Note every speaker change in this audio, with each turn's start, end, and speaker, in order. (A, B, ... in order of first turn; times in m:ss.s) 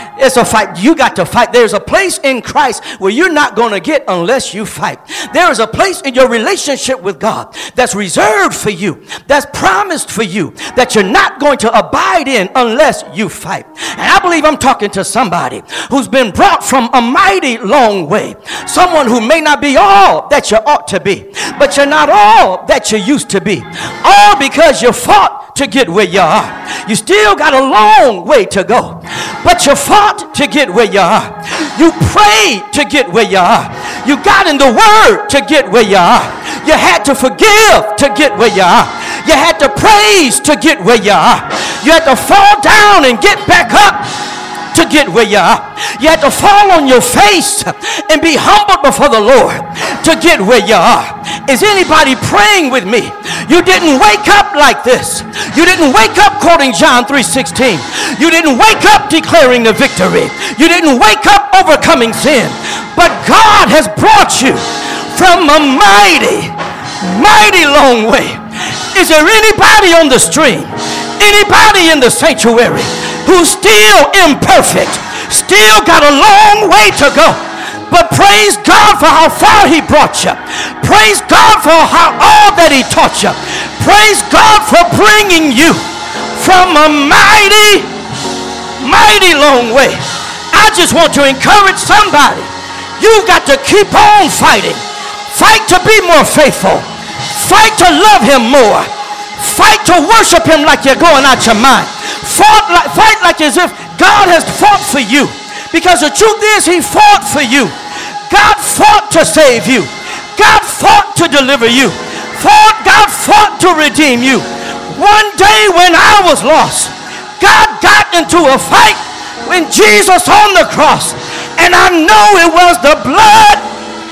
0:00.2-0:44.1 A
0:44.7-1:25.8 A
1:26.3-1:27.9 A
1:28.8-2:03.6 A